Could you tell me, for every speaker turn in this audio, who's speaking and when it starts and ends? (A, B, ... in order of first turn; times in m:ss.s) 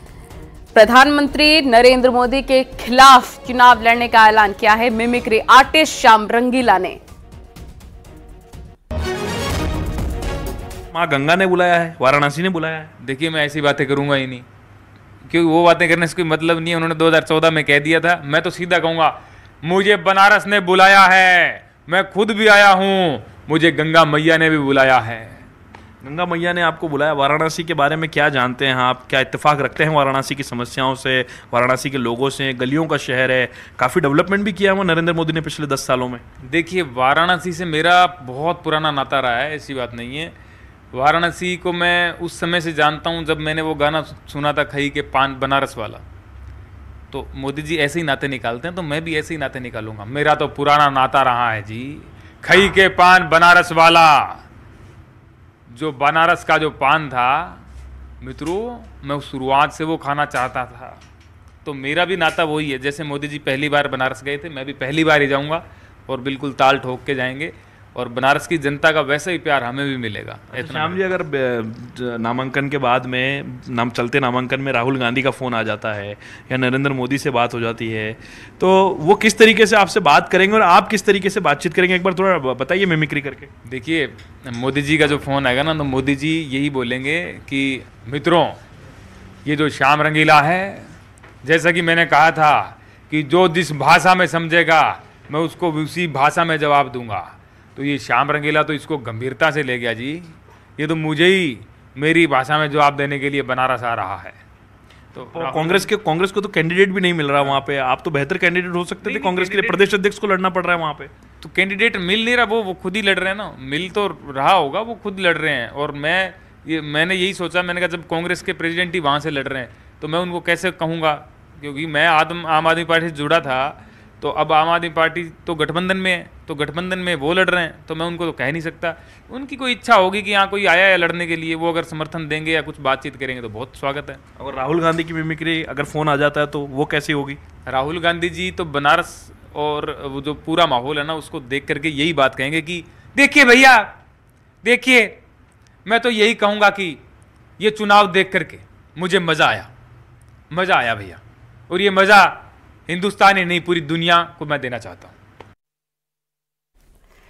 0:00.7-0:07.0 A
0:10.9-0:12.9 B
0:13.0-0:14.4 C
0:15.3-0:25.4 C
0:26.0-0:36.2 B
0:36.4-0:40.3 C
0:40.9-0:46.0 C
0:47.1-0:54.4 C
0:55.7-0:57.6 C
0:58.2-1:01.0 C
1:01.6-1:11.0 C
1:10.5-1:23.5 B
1:23.7-1:28.6 C
1:29.4-1:30.9 C
1:31.4-1:44.4 C
1:45.1-1:45.9 C
1:45.3-1:51.1 B
1:49.0-1:49.9 C
1:51.4-2:14.2 C
2:14.4-2:17.4 B
2:17.7-2:23.9 C
2:24.6-2:25.2 C
2:25.8-2:27.0 C
2:27.6-2:29.7 C
2:30.5-2:35.1 C